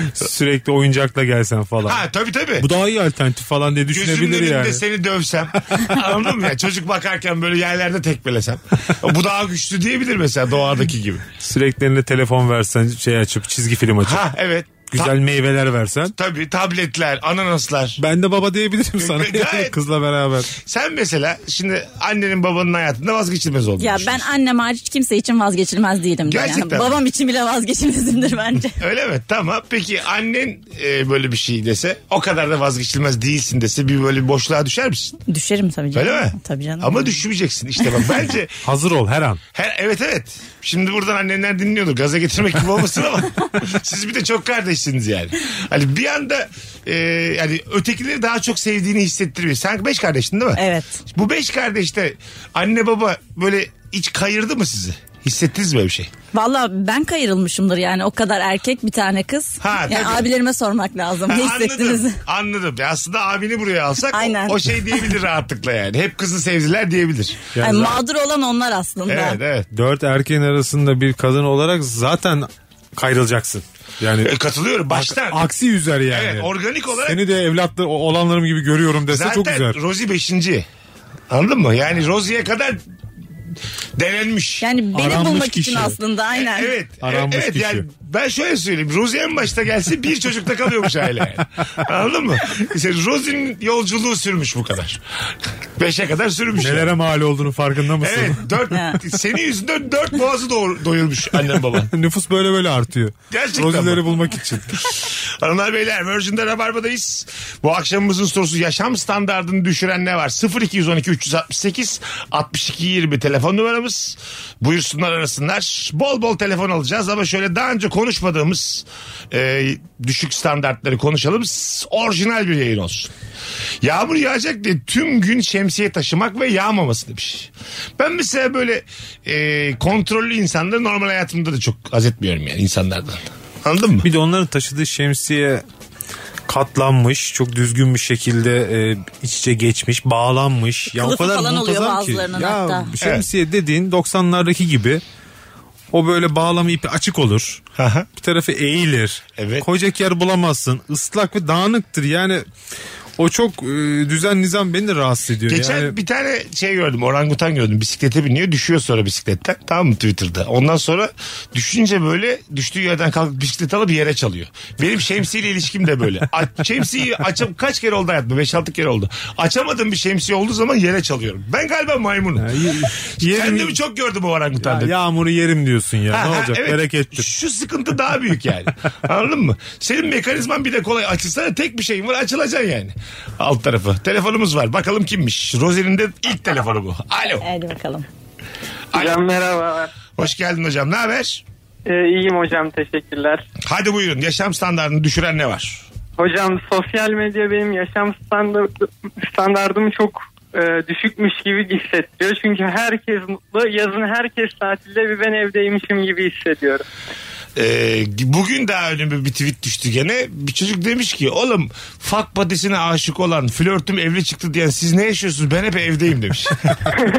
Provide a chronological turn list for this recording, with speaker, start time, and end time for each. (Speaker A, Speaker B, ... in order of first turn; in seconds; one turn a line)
Speaker A: 0.1-2.0
Speaker B: 1.8-2.7
Speaker A: 2.6-4.8
Speaker B: 3.9-11.3
Speaker A: 11.3-14.2
Speaker B: 14.0-15.2
Speaker A: 14.9-16.1
Speaker B: 16.1-18.0
Speaker A: 18.0-20.6
Speaker B: 19.0-19.8
Speaker B: 20.6-24.3
Speaker C: 23.8-28.8
Speaker B: 26.3-27.0
Speaker B: 28.8-35.2
Speaker C: 35.3-37.2
Speaker B: 35.9-38.6
Speaker A: 38.6-39.4
Speaker B: 39.5-50.6
Speaker C: 50.6-51.0
Speaker B: 51.1-56.1
Speaker C: 56.3-62.2
Speaker B: 59.6-60.3
Speaker B: 61.3-67.5
Speaker C: 64.1-64.8
Speaker A: 67.5-68.0
Speaker C: 67.6-69.4
Speaker B: 69.1-69.7
Speaker A: 69.7-74.3
Speaker B: 74.2-75.5
Speaker A: 74.9-79.8
Speaker B: 76.1-77.2
Speaker B: 79.1-80.7
Speaker B: 81.3-82.8
Speaker B: 84.0-84.7
Speaker C: 84.6-86.7
Speaker A: 84.9-86.0
Speaker B: 86.4-95.0
Speaker A: 87.0-87.8
Speaker B: 95.8-96.9
Speaker A: 96.6-98.5
Speaker B: 98.0-101.9
Speaker A: 101.8-104.8
Speaker B: 103.3-104.2
Speaker B: 105.0-123.1
Speaker B: 123.8-134.1
Speaker A: 134.0-135.6
Speaker A: 136.5-145.0
Speaker C: 140.9-142.9
Speaker A: 145.9-147.6
Speaker B: 147.8-148.1
Speaker A: 148.2-152.4
Speaker B: 149.4-149.7
Speaker A: 153.2-155.9
Speaker B: 155.5-172.6
Speaker A: 172.4-173.8
Speaker B: 173.2-174.9
Speaker A: 174.6-177.3
Speaker B: 176.1-187.4
Speaker C: 187.4-188.1
Speaker B: 188.9-189.2
Speaker D: 188.9-189.9
Speaker B: 190.2-191.4
Speaker D: 191.8-193.4
Speaker B: 193.7-195.8
Speaker D: 196.2-206.8
Speaker B: 207.6-216.9